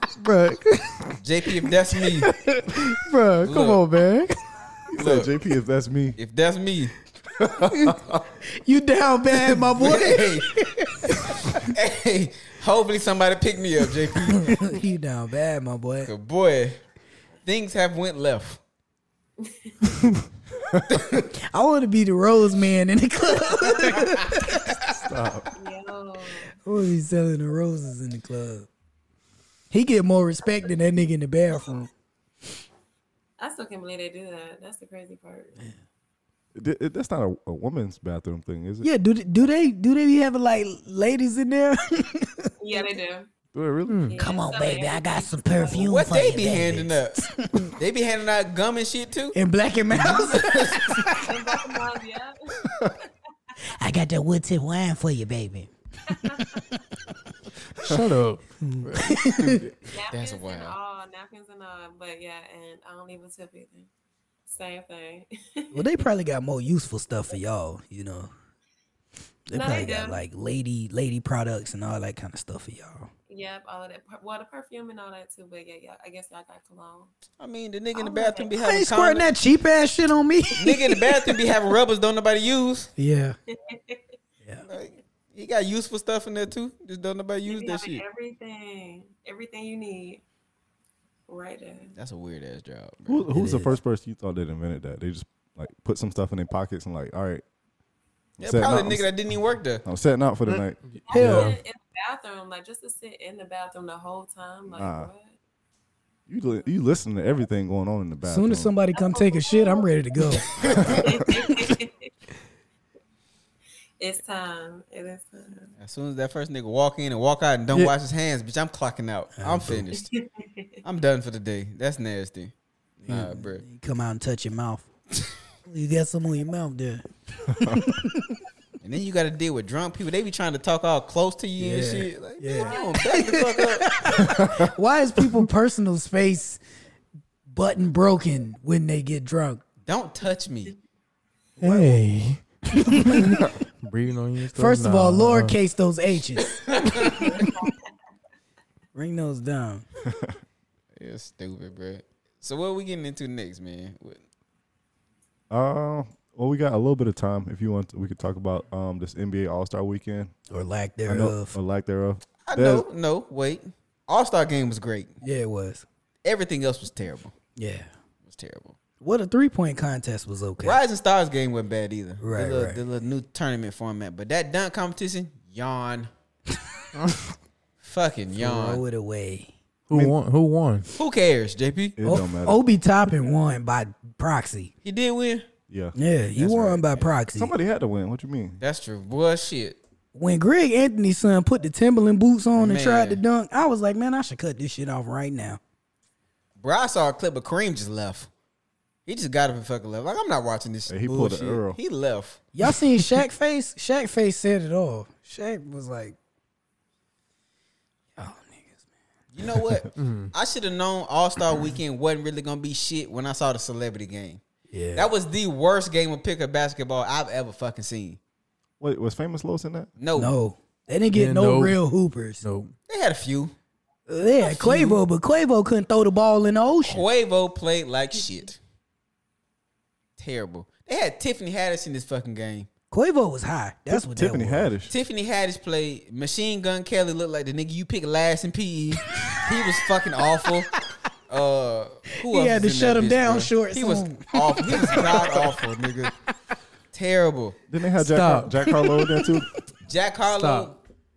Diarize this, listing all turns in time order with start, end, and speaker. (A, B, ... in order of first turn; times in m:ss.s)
0:00.2-0:00.6 A
0:01.2-0:02.3 B
0:02.2-0:03.2 C
0:02.8-0:04.4 A
0:03.4-0:03.9 B
0:04.9-0:06.2 D
0:05.0-0:05.3 B
0:06.2-0:06.9 B
0:07.4-0:08.2 D
0:07.6-0:11.7 C
0:09.5-0:10.6 B
0:11.6-0:14.8 B
0:14.3-0:16.1 C
0:16.0-0:16.8 B
0:17.4-0:18.6 B
0:19.4-0:19.8 E
0:20.9-0:21.3 B
0:21.4-0:25.0 C
0:25.0-0:25.5 D
0:25.6-0:26.6 E
0:26.6-0:28.7 C
0:29.7-0:31.9 C
0:33.4-0:35.7 E
0:36.6-0:38.9 D
0:38.8-0:42.9 C
0:42.6-0:43.3 E
0:43.5-0:44.1 D
0:43.9-0:44.2 A
0:44.1-0:45.9 E
0:44.2-0:47.8 C
0:45.7-0:47.3 B
0:47.8-0:49.4 B
0:49.3-0:51.5 C
0:50.0-0:50.9 B
0:51.2-0:53.1 E
0:53.7-0:55.7 C
0:56.1-0:56.6 E
0:56.2-0:56.6 C
0:57.8-0:59.2 A
0:58.6-0:59.7 C
0:59.9-1:03.9 E
1:00.1-1:00.8 B
1:04.5-1:05.9 E
1:05.7-1:08.3 C
1:09.5-1:13.1 C
1:09.5-1:10.2 E
1:13.3-1:17.1 E
1:17.4-1:19.3 B
1:17.9-1:18.5 E
1:18.6-1:21.4 C
1:20.6-1:22.9 B
1:23.0-1:23.4 C
1:23.5-1:24.1 E
1:24.7-1:28.0 B
1:27.5-1:30.2 E
1:31.3-1:32.0 E
1:32.0-1:33.3 B
1:33.1-1:37.4 D
1:33.3-1:33.8 C
1:38.4-1:39.8 B
1:38.4-1:39.1 D
1:39.8-1:41.4 D
1:40.5-1:41.6 A
1:41.0-1:45.4 E
1:44.7-1:45.1 D
1:46.3-1:48.7 D
1:48.2-1:51.4 C
1:48.9-1:49.9 E
1:50.6-1:51.3 D
1:51.0-1:52.1 E
1:54.0-1:55.7 E
1:55.8-2:00.1 B
1:59.4-1:59.9 C
1:59.9-2:00.8 E
2:00.8-2:03.6 B
2:03.0-2:04.9 C
2:05.7-2:08.4 C
2:07.5-2:08.0 D
2:08.8-2:13.9 B
2:11.6-2:16.6 C
2:12.5-2:13.0 E
2:14.2-2:14.7 D
2:17.5-2:19.6 C
2:19.9-2:20.8 B
2:21.6-2:25.6 A
2:21.6-2:22.0 C
2:22.7-2:23.5 C
2:24.5-2:27.3 C
2:26.6-2:27.2 B
2:26.9-2:27.9 E
2:28.9-2:29.9 C
2:30.1-2:30.4 D
2:31.0-2:34.2 B
2:35.5-2:40.3 D
2:40.5-2:41.6 C
2:41.1-2:42.9 D
2:42.5-2:45.1 B
2:45.2-2:45.9 C
2:46.2-2:47.3 B
2:47.6-2:47.9 C
2:48.3-2:48.8 B
2:49.0-2:50.8 C
2:50.6-2:56.1 B
2:52.2-2:52.8 C
2:57.8-2:58.8 B
2:58.4-2:59.5 C
2:59.9-3:00.9 A
3:01.0-3:02.0 B
3:02.0-3:02.6 D
3:02.0-3:04.7 C
3:04.8-3:05.5 B
3:05.7-3:06.0 D
3:06.0-3:07.5 C
3:06.4-3:07.1 B
3:07.4-3:08.6 D
3:08.6-3:09.8 B
3:10.1-3:15.6 C
3:12.6-3:13.2 B
3:16.6-3:18.3 B
3:19.1-3:22.4 B
3:20.9-3:21.8 D
3:22.6-3:26.2 C
3:28.2-3:28.8 C
3:29.3-3:34.4 B
3:30.0-3:30.3 A
3:34.7-3:35.1 C
3:35.0-3:38.2 B
3:38.8-3:39.9 D
3:40.0-3:40.4 B
3:40.2-3:42.4 C
3:41.1-3:41.8 A
3:42.4-3:42.7 A
3:42.9-3:43.5 B
3:44.1-3:47.1 C
3:44.4-3:45.0 B
3:46.8-3:48.6 B
3:50.2-3:52.7 B
3:52.9-3:54.7 C
3:53.9-3:54.9 D
3:54.9-4:00.8 B
3:59.2-3:59.7 C
4:01.3-4:06.1 B
4:02.2-4:06.1 C
4:06.9-4:07.6 B
4:07.7-4:09.5 D
4:08.0-4:08.6 A
4:08.6-4:09.5 C
4:09.9-4:10.8 B
4:10.3-4:10.8 A